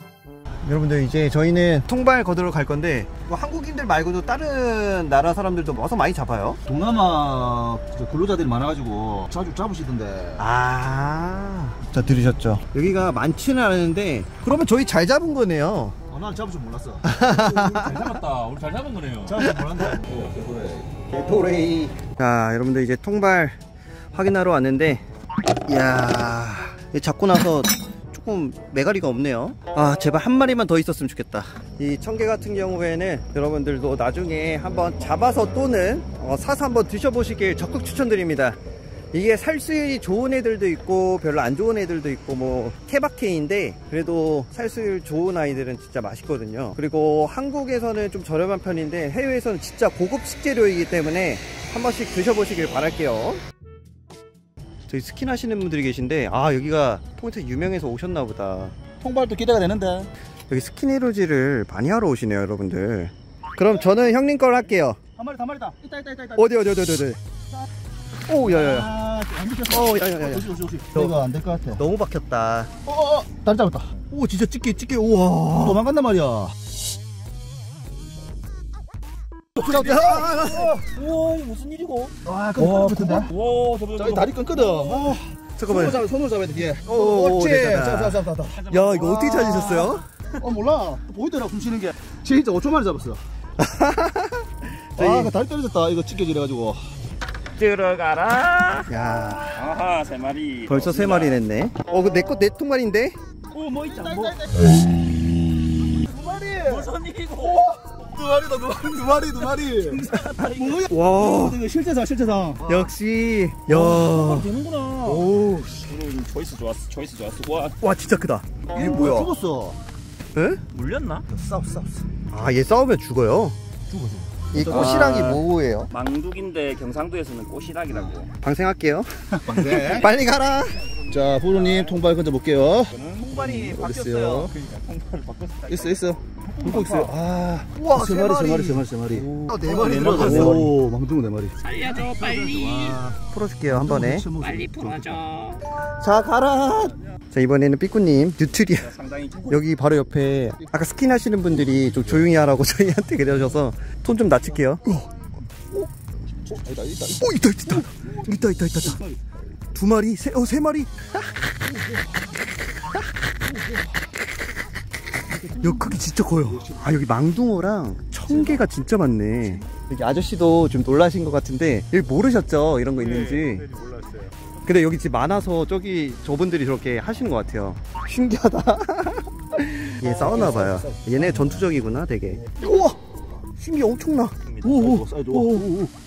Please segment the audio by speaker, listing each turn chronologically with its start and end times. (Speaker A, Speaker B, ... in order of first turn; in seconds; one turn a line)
Speaker A: 0.6-6.6
Speaker B: 6.6-10.4
Speaker A: 10.4-16.0
Speaker B: 16.1-17.1
Speaker A: 17.0-18.1
Speaker C: 17.5-19.4
Speaker B: 19.2-20.9
Speaker A: 19.4-19.9
Speaker A: 21.1-23.6
Speaker A: 24.1-25.0
Speaker A: 25.6-38.6
Speaker A: 39.1-53.4
Speaker A: 54.9-58.7
Speaker B: 59.0-60.1
Speaker A: 60.5-65.0
Speaker B: 63.7-64.1
Speaker B: 65.2-66.6
Speaker A: 66.3-67.2
Speaker A: 68.3-68.9
Speaker B: 68.4-71.8
Speaker A: 69.7-71.2
Speaker A: 71.7-72.7
Speaker B: 72.8-74.4
Speaker A: 74.1-75.8
Speaker B: 75.5-76.5
Speaker B: 79.6-80.9
Speaker C: 79.8-85.2
Speaker A: 79.8-80.5
Speaker B: 82.2-83.3
Speaker A: 82.6-83.2
Speaker B: 84.0-88.7
Speaker A: 85.6-86.0
Speaker A: 86.8-90.0
Speaker C: 88.5-90.0
Speaker B: 90.4-93.2
Speaker A: 93.6-95.3
Speaker B: 95.0-96.8
Speaker C: 97.5-98.9
Speaker A: 98.9-99.7
Speaker C: 99.5-101.4
Speaker A: 100.7-103.2
Speaker C: 103.5-104.4
Speaker B: 103.5-104.7
Speaker B: 106.0-112.9
Speaker C: 106.5-107.7
Speaker C: 109.5-110.8
Speaker A: 110.9-111.6
Speaker A: 112.7-114.5
Speaker C: 113.7-115.3
Speaker A: 115.0-115.9
Speaker B: 115.3-115.6
Speaker C: 115.8-117.8
Speaker A: 117.8-119.3
Speaker B: 118.7-119.8
Speaker A: 120.3-120.6
Speaker C: 120.7-121.2
Speaker B: 121.3-122.1
Speaker A: 122.3-123.5
Speaker B: 123.9-125.4
Speaker A: 124.5-125.9
Speaker C: 124.6-125.3
Speaker C: 125.9-128.3
Speaker A: 128.4-130.8
Speaker B: 129.4-130.1
Speaker C: 129.6-132.0
Speaker B: 131.1-134.5
Speaker C: 132.9-137.1
Speaker B: 135.7-143.2
Speaker A: 136.7-140.7
Speaker C: 139.8-140.6
Speaker C: 141.6-143.0
Speaker A: 143.1-144.3
Speaker B: 143.7-145.2
Speaker C: 144.4-145.6
Speaker A: 146.0-155.1
Speaker C: 148.8-149.6
Speaker B: 156.4-159.2
Speaker A: 157.2-159.0
Speaker A: 159.7-161.1
Speaker A: 165.4-173.7
Speaker B: 166.5-166.9
Speaker B: 168.3-168.6
Speaker C: 173.0-174.3
Speaker A: 174.6-182.6
Speaker B: 180.2-181.5
Speaker B: 182.6-182.9
Speaker A: 183.6-185.7
Speaker B: 184.6-185.9